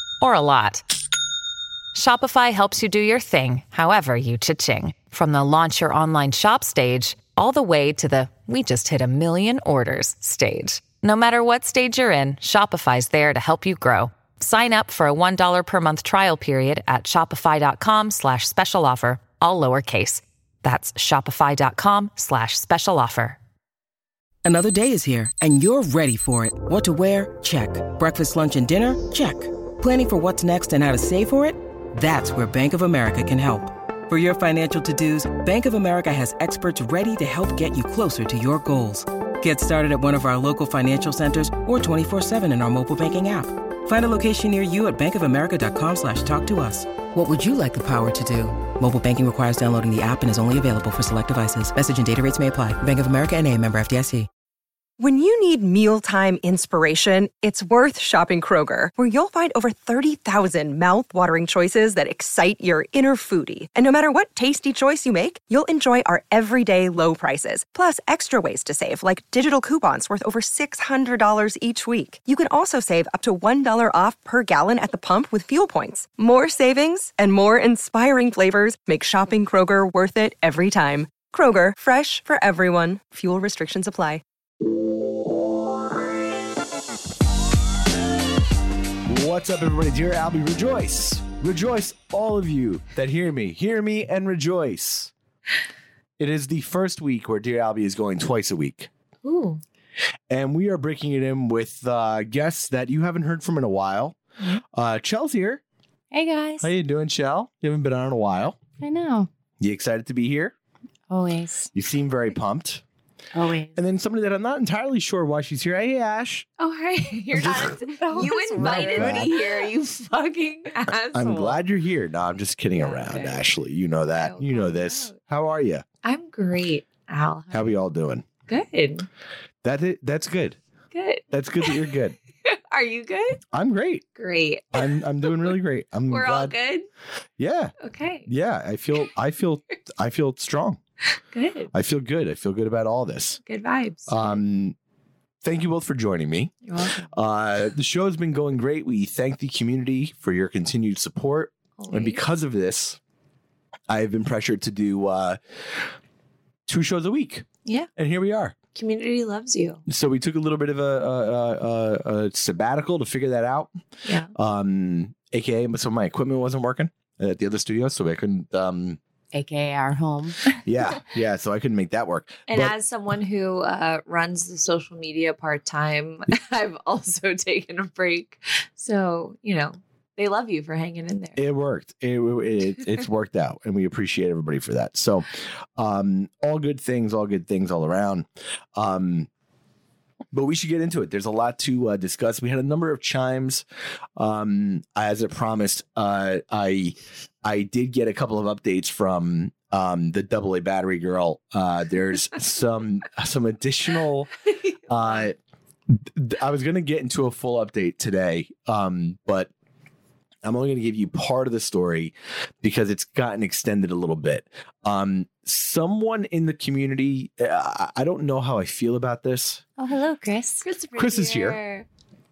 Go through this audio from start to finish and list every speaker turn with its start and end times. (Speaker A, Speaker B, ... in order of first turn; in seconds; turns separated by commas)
Speaker A: 0.2-0.8, Speaker A: 1.9-23.4, Speaker B: 24.4-54.3, Speaker C: 55.0-84.2, Speaker D: 89.0-95.1, Speaker D: 96.2-98.9, Speaker E: 99.2-99.6, Speaker D: 100.3-104.2, Speaker D: 104.7-105.6, Speaker F: 106.1-106.7, Speaker D: 106.6-108.6, Speaker F: 108.8-109.3, Speaker D: 109.6-110.5, Speaker F: 111.1-111.7, Speaker D: 111.7-112.8, Speaker F: 113.3-113.8, Speaker D: 113.7-116.5, Speaker E: 116.6-121.5, Speaker D: 117.3-117.8, Speaker F: 118.0-119.4, Speaker D: 118.5-119.3, Speaker D: 121.1-125.8, Speaker E: 122.8-123.4, Speaker E: 124.2-125.2, Speaker E: 126.0-127.8, Speaker D: 127.5-128.2, Speaker E: 128.5-129.1, Speaker D: 129.6-130.6, Speaker E: 130.9-133.4, Speaker D: 131.3-132.2, Speaker D: 133.5-134.0, Speaker E: 134.2-135.4, Speaker D: 134.7-136.5, Speaker E: 136.1-136.8, Speaker D: 137.4-137.7, Speaker E: 137.8-138.3, Speaker D: 138.2-140.8, Speaker E: 141.3-141.7, Speaker D: 141.7-143.4, Speaker E: 143.4-144.4, Speaker D: 144.1-144.8, Speaker D: 145.4-153.0, Speaker E: 146.7-147.1, Speaker E: 151.8-152.2, Speaker D: 153.9-155.9, Speaker D: 156.7-158.5, Speaker E: 158.7-159.8, Speaker D: 159.9-163.7, Speaker E: 164.0-164.3, Speaker D: 164.3-169.0, Speaker F: 169.3-170.5, Speaker D: 170.6-172.7, Speaker E: 172.5-181.4, Speaker D: 181.4-189.3, Speaker D: 190.3-193.6, Speaker D: 194.2-204.3, Speaker D: 204.9-205.3, Speaker D: 205.9-209.5, Speaker D: 210.4-219.6, Speaker F: 219.8-220.7, Speaker E: 220.6-221.8, Speaker D: 220.9-221.6